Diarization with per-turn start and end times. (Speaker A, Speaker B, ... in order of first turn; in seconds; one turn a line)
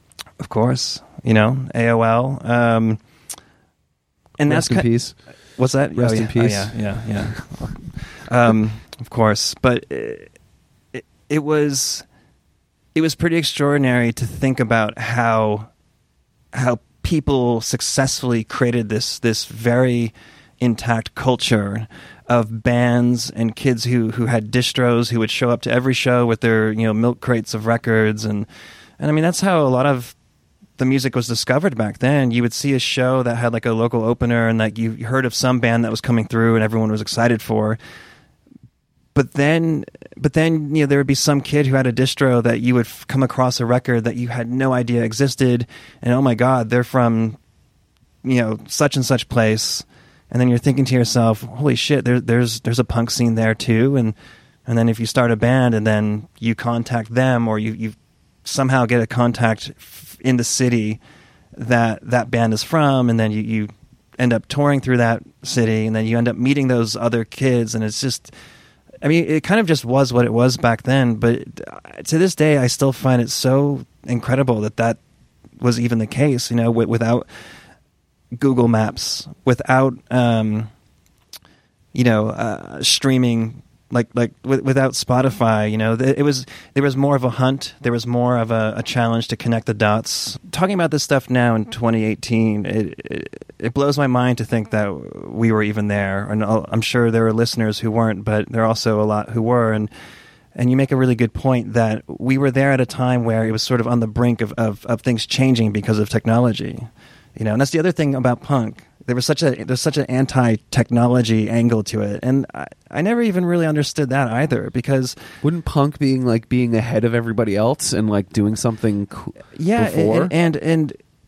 Speaker A: 0.4-3.0
Speaker A: 4.4-4.9
Speaker B: 4.5-5.2
Speaker A: 5.6-10.3
Speaker B: 6.0-6.8
Speaker A: 10.9-12.1
Speaker A: 12.9-15.7
Speaker A: 16.5-28.5
Speaker A: 29.0-30.1
Speaker A: 30.8-37.8
Speaker A: 39.1-47.4
Speaker A: 48.2-61.0
Speaker A: 61.5-68.3
Speaker A: 69.0-75.0
Speaker A: 75.6-77.3
Speaker A: 78.3-80.7
Speaker A: 81.9-99.9
Speaker A: 100.5-115.2
Speaker B: 115.4-120.3
Speaker A: 119.6-121.0